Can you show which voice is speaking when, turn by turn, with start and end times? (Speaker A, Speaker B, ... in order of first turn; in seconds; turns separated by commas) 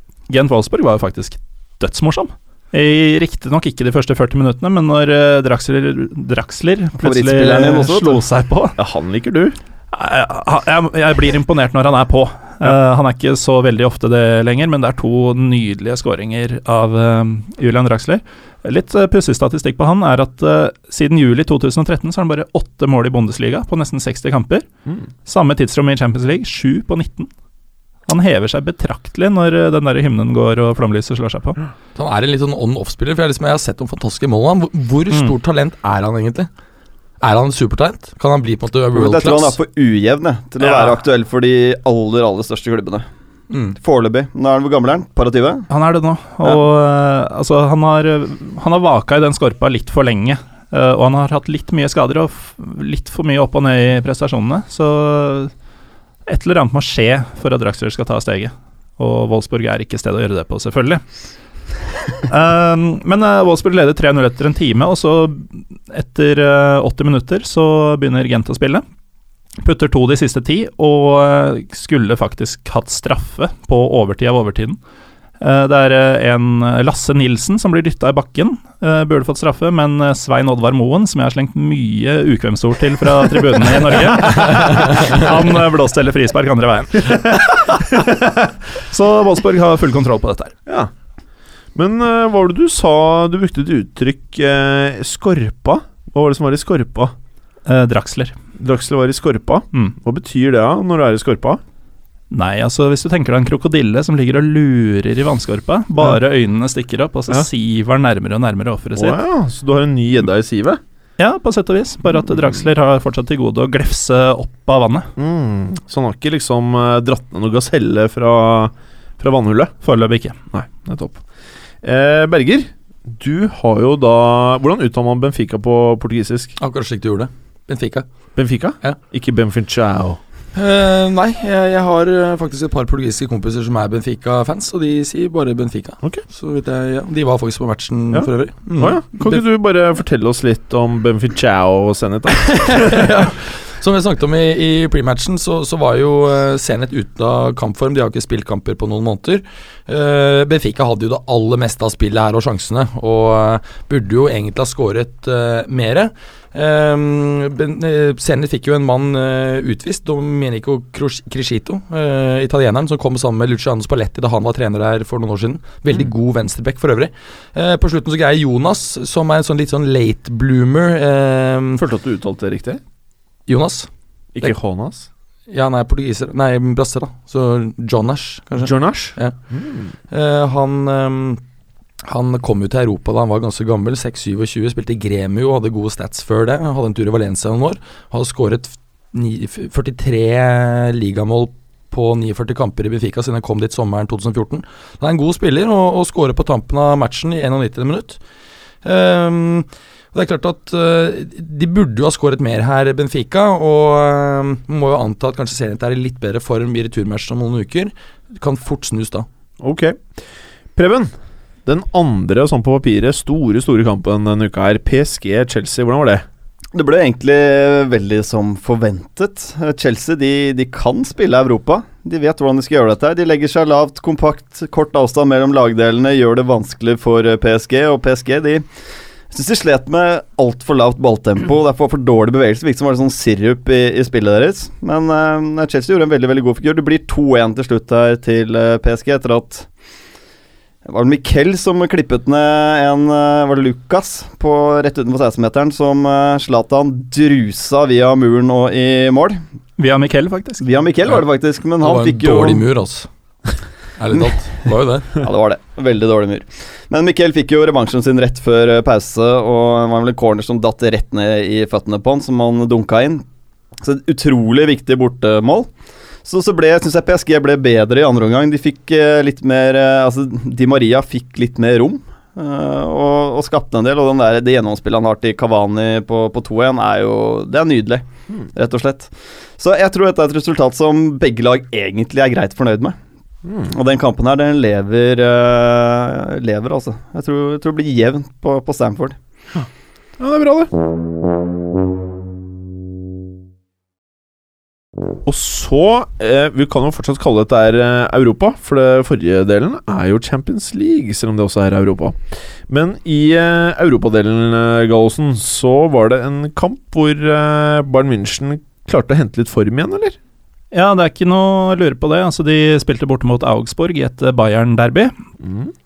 Speaker A: 0.3-8.8, Speaker B: 7.0-8.2, Speaker C: 8.8-9.6, Speaker A: 9.9-24.7, Speaker A: 25.3-27.3, Speaker A: 28.1-31.6, Speaker D: 32.0-36.5, Speaker D: 37.2-39.6, Speaker B: 38.9-43.1, Speaker D: 43.5-43.8, Speaker B: 43.8-45.7, Speaker A: 45.7-55.5, Speaker A: 56.3-61.0, Speaker A: 62.3-68.8, Speaker A: 69.6-74.8, Speaker A: 75.4-88.2, Speaker A: 88.8-90.5, Speaker C: 91.8-97.1, Speaker A: 97.7-98.3, Speaker C: 98.6-101.6, Speaker A: 102.3-109.2, Speaker C: 109.0-110.8, Speaker A: 111.2-115.1, Speaker C: 115.2-119.7, Speaker A: 119.8-120.4, Speaker C: 120.5-121.2, Speaker C: 121.8-126.5, Speaker D: 126.6-128.1, Speaker C: 128.4-130.2, Speaker D: 130.6-139.4, Speaker C: 138.1-143.1, Speaker D: 142.5-171.8, Speaker C: 171.8-172.8, Speaker D: 173.5-173.9, Speaker C: 174.3-175.1, Speaker D: 175.5-179.3, Speaker C: 178.6-179.9, Speaker D: 180.1-181.4, Speaker D: 182.0-198.2, Speaker D: 198.8-209.3, Speaker C: 209.6-210.2, Speaker C: 210.8-211.1, Speaker C: 211.7-216.2, Speaker B: 216.7-228.7, Speaker B: 229.3-239.7, Speaker B: 240.9-249.4, Speaker A: 249.8-250.6, Speaker B: 250.6-252.7, Speaker D: 251.8-253.1, Speaker D: 254.0-255.1, Speaker B: 255.2-263.2, Speaker B: 263.8-265.7, Speaker B: 266.2-283.0, Speaker C: 283.4-283.7, Speaker B: 283.7-289.2, Speaker C: 290.2-290.7, Speaker C: 295.2-310.2, Speaker A: 310.7-315.1, Speaker C: 315.4-315.7